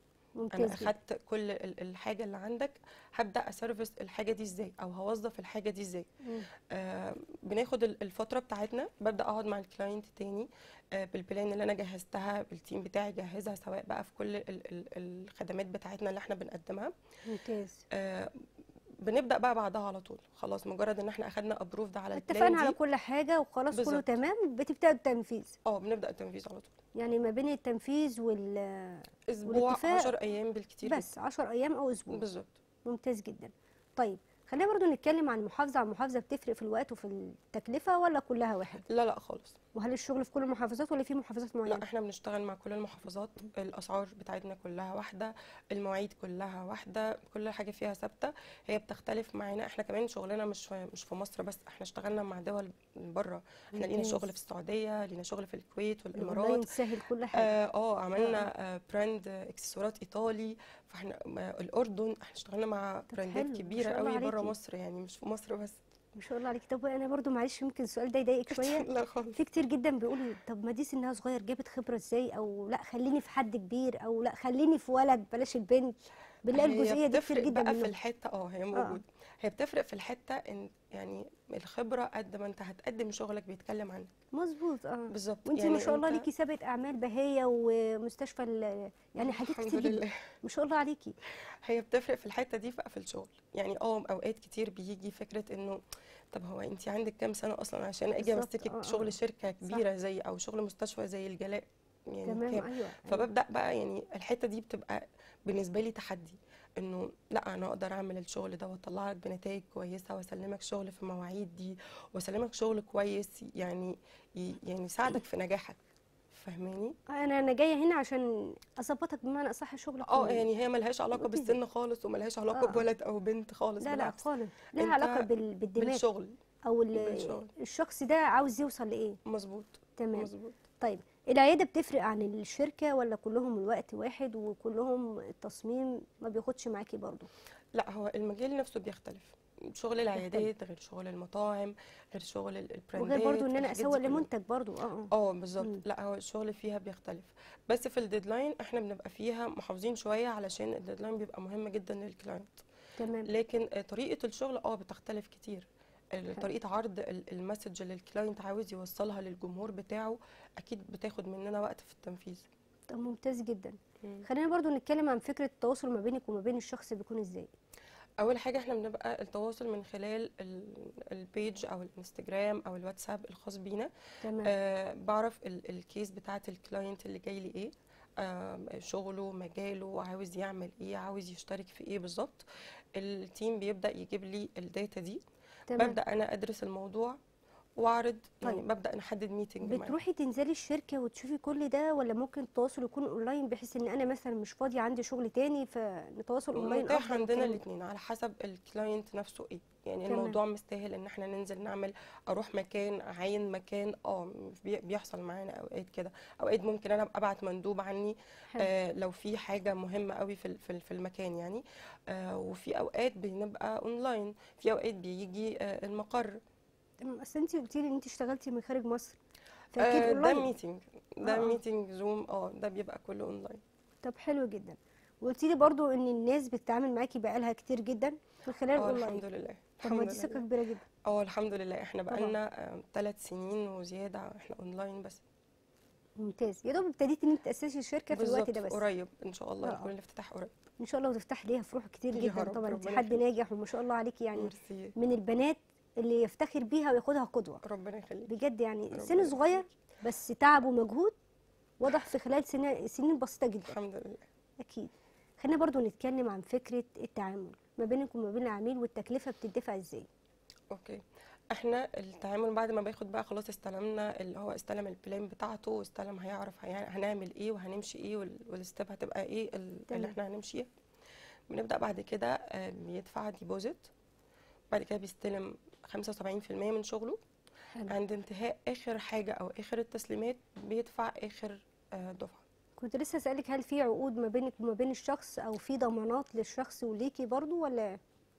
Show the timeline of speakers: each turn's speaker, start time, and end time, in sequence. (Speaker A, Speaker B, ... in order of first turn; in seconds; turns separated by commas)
Speaker A: 0.4-0.9, Speaker B: 0.5-6.1, Speaker B: 6.6-16.9, Speaker A: 17.2-17.8, Speaker B: 17.9-18.3, Speaker B: 19.0-22.8, Speaker A: 22.1-25.6, Speaker B: 23.7-24.1, Speaker B: 25.6-26.7, Speaker A: 26.9-30.1, Speaker B: 29.3-31.1, Speaker A: 30.8-32.2, Speaker B: 32.1-32.5, Speaker A: 32.8-38.8, Speaker B: 38.9-39.5, Speaker A: 39.7-41.8, Speaker B: 41.6-56.7, Speaker A: 53.7-54.3, Speaker A: 56.1-57.5, Speaker B: 57.3-65.8, Speaker A: 58.2-58.5, Speaker A: 63.1-64.5, Speaker A: 66.2-77.9, Speaker B: 68.5-69.4, Speaker B: 76.5-84.1, Speaker A: 78.7-79.0, Speaker A: 84.3-91.2, Speaker B: 85.1-86.3, Speaker B: 89.2-90.2, Speaker B: 91.6-95.8, Speaker B: 96.3-115.8, Speaker A: 98.2-99.1, Speaker A: 102.2-103.3, Speaker B: 116.3-116.9, Speaker A: 117.1-120.5, Speaker B: 120.0-124.2, Speaker A: 121.2-121.6, Speaker A: 122.5-122.8, Speaker A: 123.8-126.0, Speaker B: 124.8-126.3, Speaker A: 126.7-129.2, Speaker B: 127.0-127.5, Speaker B: 129.2-130.6, Speaker A: 130.0-137.3, Speaker B: 137.7-144.3, Speaker A: 140.2-140.5, Speaker A: 143.0-145.8, Speaker B: 145.1-152.6, Speaker A: 153.0-153.3, Speaker B: 153.2-162.5, Speaker A: 162.9-167.5, Speaker B: 168.2-173.9, Speaker A: 174.2-174.5, Speaker B: 174.4-185.2, Speaker A: 185.7-186.0, Speaker B: 185.7-187.2, Speaker B: 187.8-190.0, Speaker A: 189.6-197.6, Speaker B: 196.5-216.4, Speaker A: 200.1-200.4, Speaker A: 217.0-219.2, Speaker A: 219.7-220.5, Speaker B: 219.8-223.6, Speaker A: 221.2-221.6, Speaker A: 224.0-229.2, Speaker B: 228.8-230.4, Speaker A: 229.8-230.8, Speaker B: 231.0-235.2, Speaker A: 232.1-232.3, Speaker A: 236.2-238.8, Speaker B: 238.1-240.6, Speaker A: 239.6-239.9, Speaker A: 240.8-247.6, Speaker B: 242.1-243.2, Speaker B: 244.3-244.9, Speaker B: 247.6-248.3, Speaker A: 248.3-251.1, Speaker B: 248.9-249.6, Speaker A: 251.8-253.7, Speaker B: 253.7-254.3, Speaker A: 254.6-260.1, Speaker B: 260.7-270.7, Speaker A: 269.9-270.1, Speaker B: 271.5-273.9, Speaker B: 274.7-277.2, Speaker B: 277.9-282.4, Speaker A: 282.8-288.0